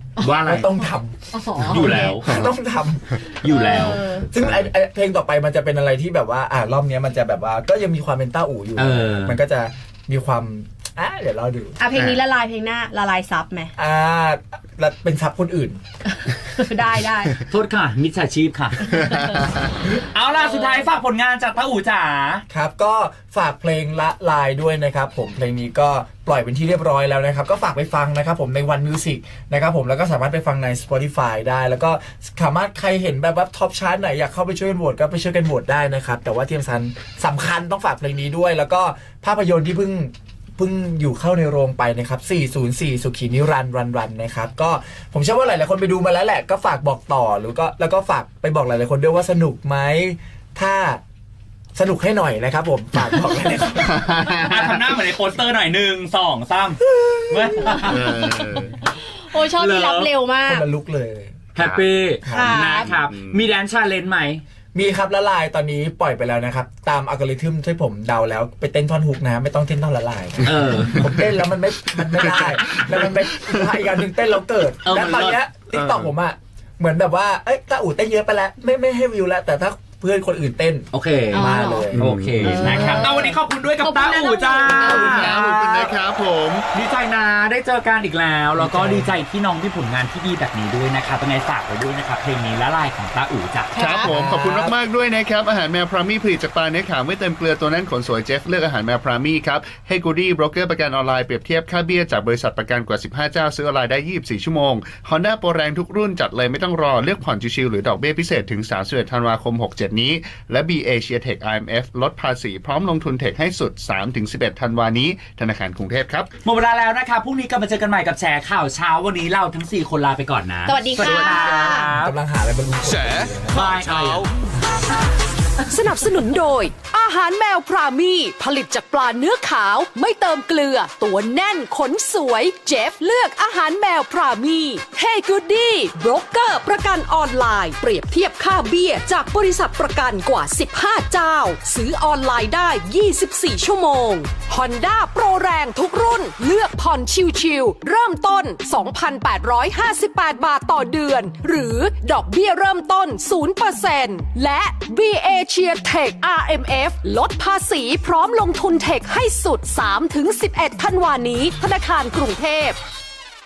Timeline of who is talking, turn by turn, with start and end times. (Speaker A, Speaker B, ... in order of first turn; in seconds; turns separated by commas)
Speaker A: 0.2-0.8, Speaker B: 0.4-1.2, Speaker C: 1.3-2.2, Speaker A: 1.6-2.3, Speaker B: 1.8-11.8, Speaker A: 3.4-4.0, Speaker C: 3.4-4.3, Speaker A: 8.8-9.4, Speaker C: 11.8-13.7, Speaker B: 13.8-15.8, Speaker C: 16.2-17.4, Speaker A: 17.5-19.1, Speaker C: 19.0-19.4, Speaker A: 20.1-22.4, Speaker C: 20.4-20.8, Speaker B: 22.5-51.0, Speaker B: 51.7-54.3, Speaker D: 53.9-54.5, Speaker A: 54.3-58.3, Speaker C: 57.6-60.6, Speaker D: 57.9-58.7, Speaker A: 59.6-60.1, Speaker B: 60.5-61.5, Speaker A: 61.5-64.4, Speaker D: 61.6-61.8, Speaker B: 62.2-62.7, Speaker C: 62.3-62.9, Speaker D: 62.7-63.4, Speaker B: 64.7-82.1, Speaker A: 70.4-71.0, Speaker D: 70.6-71.2, Speaker D: 72.3-73.7, Speaker A: 74.8-75.4, Speaker D: 75.7-76.1, Speaker A: 80.9-85.9, Speaker C: 81.3-85.4, Speaker D: 81.9-83.1, Speaker D: 84.8-86.6, Speaker A: 86.7-93.9, Speaker B: 88.5-89.2, Speaker C: 93.8-94.1, Speaker D: 93.8-116.3, Speaker B: 93.9-94.7, Speaker A: 116.4-122.1, Speaker C: 120.7-121.9, Speaker D: 121.0-121.8, Speaker B: 121.9-123.7, Speaker A: 123.5-124.3, Speaker E: 125.7-162.8